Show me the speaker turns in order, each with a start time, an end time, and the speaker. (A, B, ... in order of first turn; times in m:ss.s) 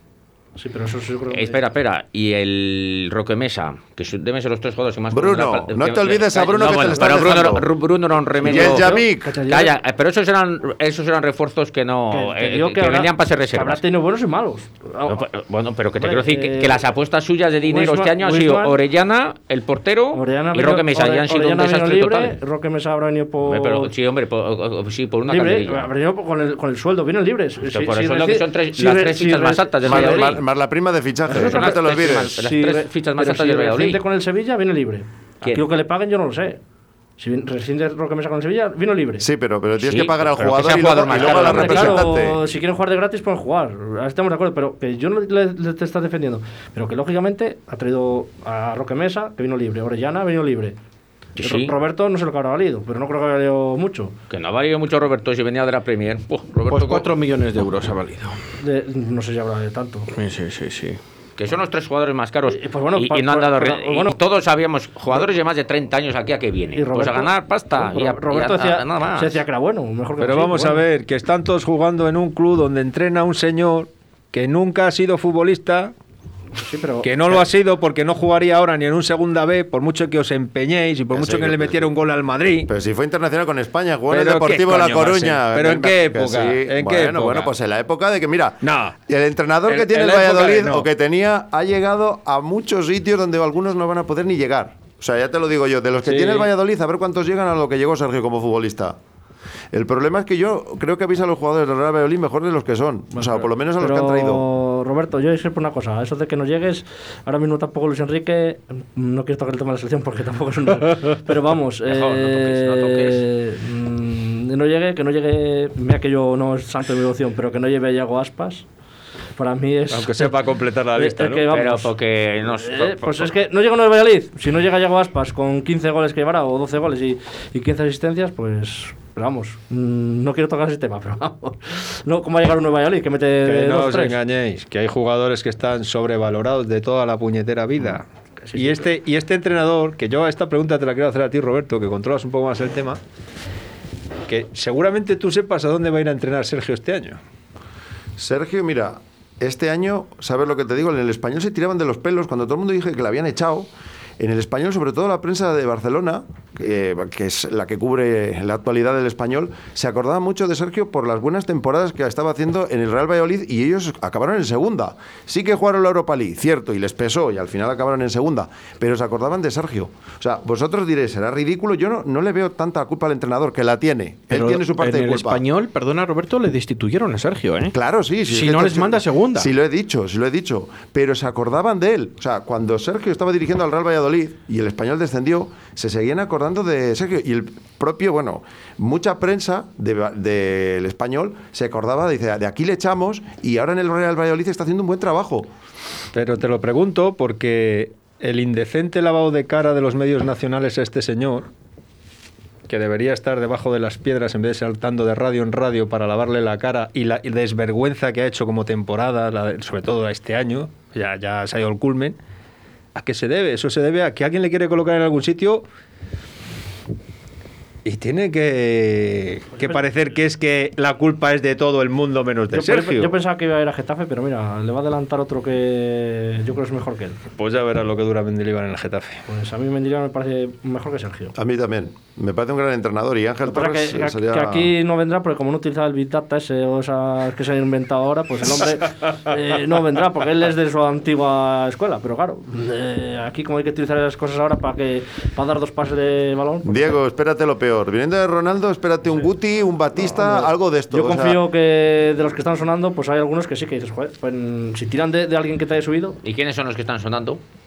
0:00.6-0:01.6 A
0:01.3-0:13.8 B
0:05.1-0:07.7 C
0:08.4-0:09.3 C
0:08.4-0:09.8 A
0:12.1-0:15.2 A
0:15.1-0:22.3 B
0:16.0-0:16.8 A
0:17.7-0:18.8 A
0:20.1-0:23.9 A
0:23.4-0:25.9 B
0:25.3-0:30.4 A
0:27.7-0:30.4 B
0:29.8-0:32.3 C
0:31.3-0:36.6 A
0:31.3-0:34.0 B
0:37.2-0:39.2 A
0:39.2-0:42.4 C
0:39.8-0:42.1 B
0:41.1-0:50.8 A
0:51.4-0:51.7 B
0:51.4-0:54.1 A
0:54.3-0:57.1 B
0:56.7-0:58.4 D
0:58.6-1:00.1 A
1:00.1-1:01.0 D
1:01.4-1:09.4 B
1:02.5-1:04.2 A
1:06.7-1:10.8 A
1:10.2-1:15.9 E
1:16.6-1:17.4 A
1:17.0-1:22.7 E
1:21.1-1:21.9 C
1:22.6-1:39.0 C
1:24.1-1:27.5 E
1:28.6-1:29.0 E
1:29.7-1:30.9 E
1:36.0-1:36.4 E
1:39.7-1:44.4 C
1:43.8-1:58.6 A
1:51.8-1:53.2 B
1:59.4-2:00.4 A
1:59.9-2:01.5 E
2:00.9-2:01.9 A
2:01.5-2:03.3 B
2:02.6-2:14.2 A
2:13.4-2:23.0 E
2:18.4-2:18.9 A
2:24.3-2:27.2 E
2:28.2-2:55.4 C
2:54.3-2:57.7 D
2:57.7-3:15.5 C
2:58.3-2:59.5 D
3:16.1-3:21.5 E
3:22.7-3:32.2 E
3:32.9-3:35.6 E
3:37.8-3:43.2 E
3:39.5-3:39.8 A
3:42.5-3:47.2 A
3:47.4-3:49.2 E
3:49.3-3:51.4 A
3:51.4-3:54.7 C
3:53.5-4:06.9 A
4:06.6-4:11.4 C
4:10.0-4:16.2 A
4:16.2-4:17.4 B